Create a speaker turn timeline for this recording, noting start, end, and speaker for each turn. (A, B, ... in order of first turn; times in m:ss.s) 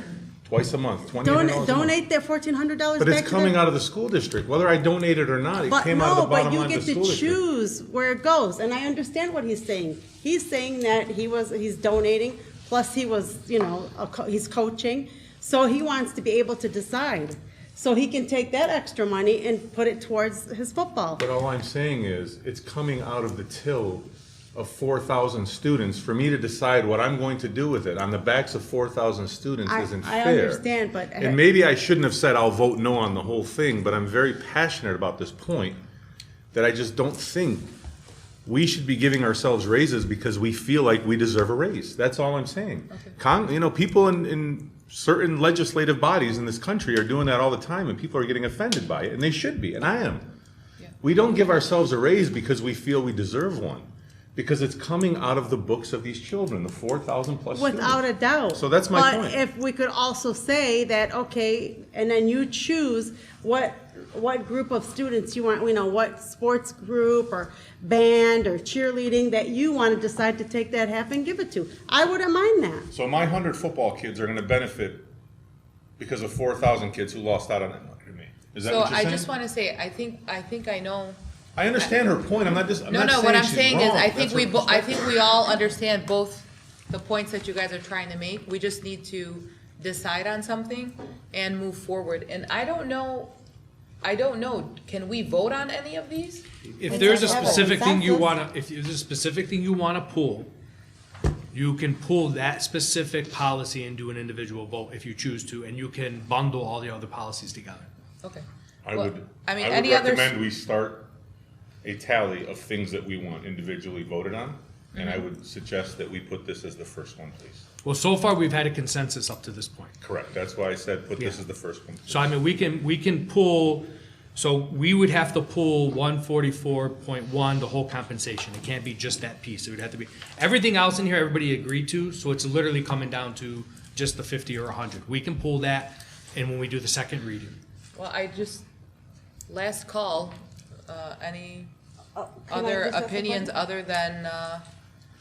0:00.4-0:01.9 A
0:01.2-0:03.6 B
0:03.0-0:07.4 A
0:05.7-0:21.2 B
0:21.2-0:30.6 A
0:29.6-0:31.4 B
0:31.2-0:35.8 A
0:36.5-0:37.7 A
0:38.4-0:50.3 A
0:51.0-0:59.4 A
0:57.5-1:12.9 B
1:12.9-1:15.1 A
1:16.0-1:19.3 A
1:18.6-1:21.2 C
1:21.6-1:25.1 A
1:22.9-1:33.3 C
1:34.0-1:36.4 C
1:36.8-1:40.5 D
1:36.9-1:38.3 B
1:41.5-1:47.9 D
1:48.2-1:50.4 C
1:48.8-1:51.1 A
1:51.8-1:57.6 A
1:54.9-1:55.2 C
1:57.8-1:59.9 D
2:00.0-2:02.4 A
2:02.1-2:17.6 D
2:17.9-2:18.6 C
2:19.5-2:21.7 C
2:22.1-2:23.5 B
2:22.5-2:24.6 C